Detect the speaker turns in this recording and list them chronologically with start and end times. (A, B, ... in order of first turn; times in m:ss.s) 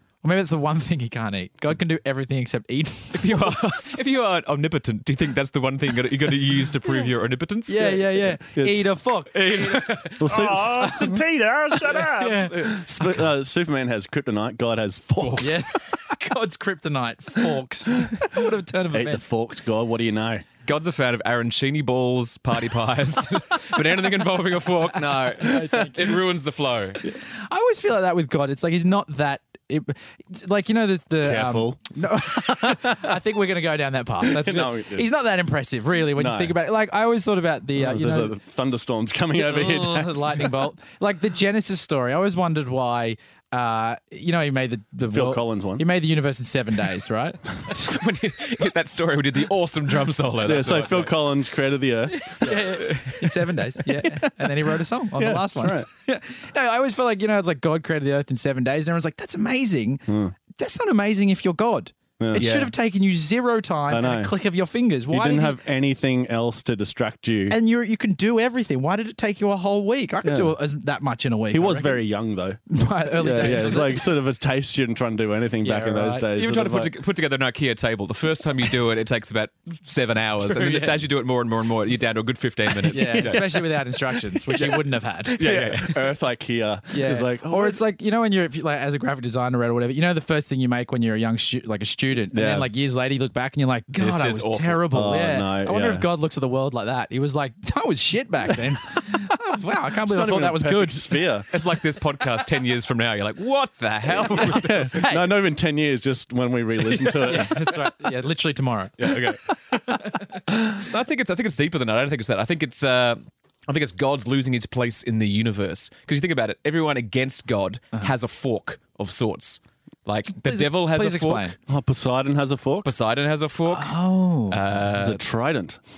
0:00.2-0:04.0 A
0:03.1-0:08.1 B
0:07.7-0:11.1 A
0:08.5-0:08.8 C
0:09.3-0:11.0 B
0:10.2-0:15.6 C
0:12.1-0:13.1 A
0:15.2-0:15.6 B
0:15.4-0:19.3 A
0:18.9-0:20.4 C
0:20.6-0:27.0 B
0:25.4-0:26.1 A
0:27.2-0:38.4 A
0:31.2-0:33.1 C
0:34.2-0:35.1 C
0:36.1-0:36.5 C
0:37.7-0:40.6 C
0:39.3-0:47.8 A
0:45.1-0:45.8 C
0:47.7-0:51.2 B
0:50.4-0:52.7 C
0:52.2-1:05.6 A
0:52.5-0:53.5 B
0:55.1-0:55.9 C
1:00.1-1:00.4 C
1:02.2-1:02.5 C
1:02.4-1:02.7 B
1:03.9-1:04.3 C
1:05.1-1:07.6 C
1:07.5-1:12.0 A
1:10.2-1:10.5 C
1:11.5-1:12.6 C
1:12.7-1:14.1 A
1:13.2-1:16.9 C
1:15.6-1:16.3 A
1:16.3-1:23.7 B
1:20.4-1:21.0 A
1:22.9-1:25.4 A
1:22.9-1:23.5 C
1:24.5-1:26.1 B
1:25.4-1:27.8 C
1:26.9-1:41.2 A
1:32.3-1:32.7 C
1:33.9-1:34.9 B
1:34.9-1:36.0 C
1:40.0-1:41.5 C
1:41.5-1:45.1 B
1:44.1-1:47.7 C
1:44.9-1:45.2 A
1:47.2-1:50.4 A
1:49.0-1:49.4 B
1:50.5-2:01.5 B
2:00.4-2:01.5 A
2:01.7-2:02.9 C
2:02.8-2:04.0 B
2:03.7-2:04.6 A
2:04.5-2:05.2 B
2:05.0-2:05.8 C